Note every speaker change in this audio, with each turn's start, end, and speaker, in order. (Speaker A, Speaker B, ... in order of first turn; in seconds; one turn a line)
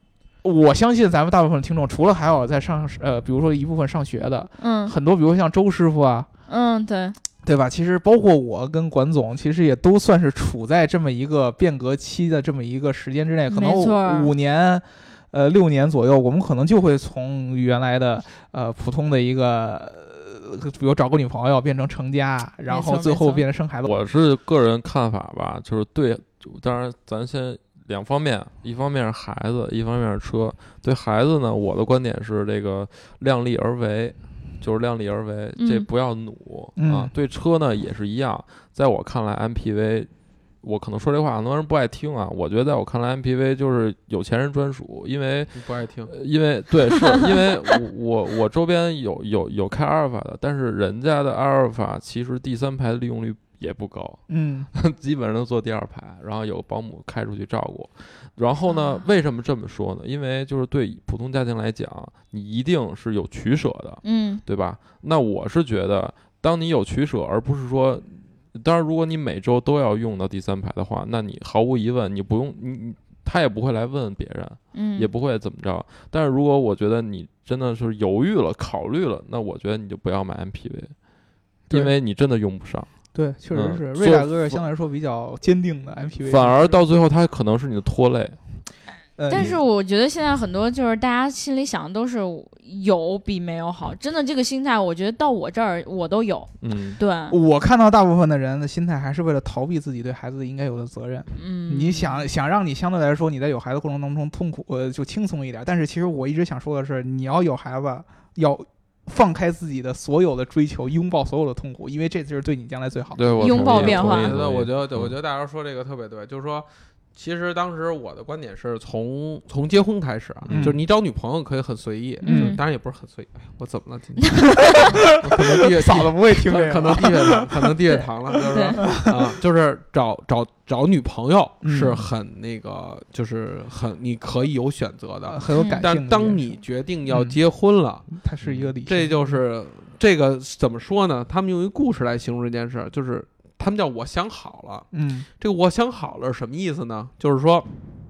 Speaker A: 0.4-6.3
Speaker B: 4.6-5.0
Speaker B: 6.5-7.2
Speaker A: 7.4-24.0
Speaker B: 13.5-14.3
Speaker B: 22.7-23.4
Speaker C: 23.8-40.1
Speaker B: 35.6-35.9
Speaker A: 36.8-37.1
Speaker C: 40.6-81.0
Speaker D: 45.5-46.1
Speaker A: 54.3-54.7
Speaker B: 64.0-64.4
Speaker B: 74.7-75.1
Speaker C: 81.7-82.9
Speaker A: 83.1-86.8
Speaker C: 83.5-84.6
Speaker C: 86.3-88.4
Speaker A: 89.2-89.6
Speaker B: 89.3-97.4
Speaker C: 96.6-97.0
Speaker A: 97.3-113.8
Speaker B: 101.4-102.3
Speaker C: 113.2-115.2
Speaker B: 113.4-114.3
Speaker D: 113.6-138.2
Speaker C: 120.5-120.8
Speaker A: 120.5-120.8
Speaker B: 122.2-122.6
Speaker A: 122.2-122.6
Speaker B: 124.4-124.8
Speaker A: 124.8-127.7
Speaker B: 128.5-128.8
Speaker A: 128.9-129.3
Speaker A: 131.6-132.1
Speaker A: 135.3-136.6
Speaker B: 135.6-135.8
Speaker A: 138.1-139.4
Speaker C: 138.4-138.7
Speaker D: 138.8-144.9
Speaker A: 144.9-145.3
Speaker D: 145.4-147.7